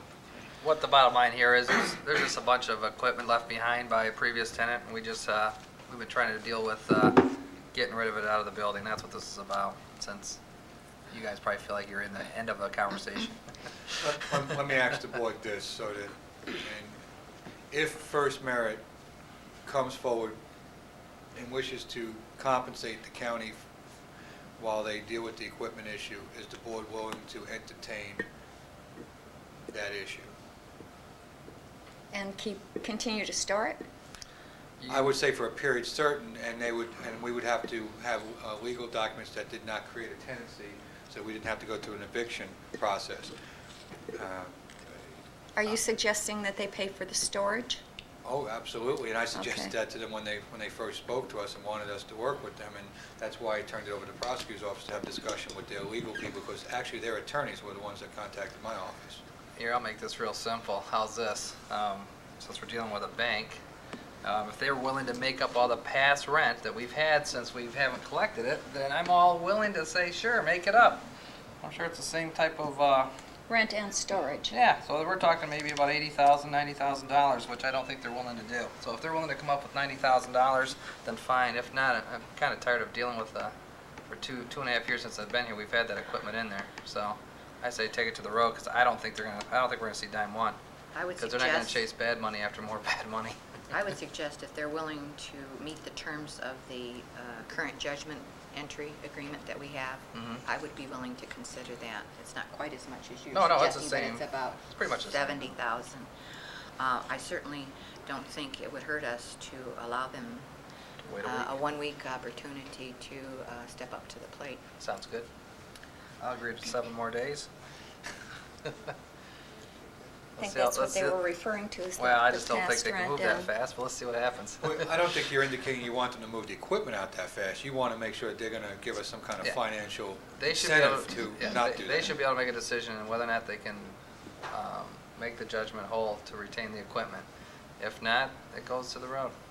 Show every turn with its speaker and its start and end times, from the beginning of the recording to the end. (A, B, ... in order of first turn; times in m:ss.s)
0:00.6-0:10.4 A
0:11.1-0:13.4 A
0:14.0-0:17.0 B
0:17.7-0:18.8 B
0:19.6-0:20.4 B
0:21.3-0:23.6 B
0:24.6-0:28.2 B
0:29.7-0:30.3 B
0:32.1-0:33.8 C
0:34.8-0:35.2 A
0:34.9-0:43.3 B
0:44.1-0:44.6 B
0:45.5-0:47.8 C
0:48.2-0:59.2 B
0:49.3-0:49.7 C
0:59.6-1:03.6 A
1:04.2-1:11.0 A
1:11.6-1:13.1 A
1:13.5-1:14.6 C
1:14.5-1:23.5 A
1:24.1-1:30.6 A
1:30.9-1:31.8 D
1:31.2-1:33.4 A
1:33.7-1:46.1 D
1:40.1-1:40.4 A
1:43.3-1:45.6 A
1:46.8-1:50.5 D
1:51.0-1:51.5 A
1:51.2-1:54.6 D
1:54.8-1:55.3 A
1:56.2-1:57.5 A
2:00.4-2:01.2 A
2:00.4-2:03.5 C
2:02.0-2:04.9 A
2:04.6-2:12.2 B
2:10.4-2:14.0 A
2:14.5-2:17.2 A
2:17.8-2:19.3 A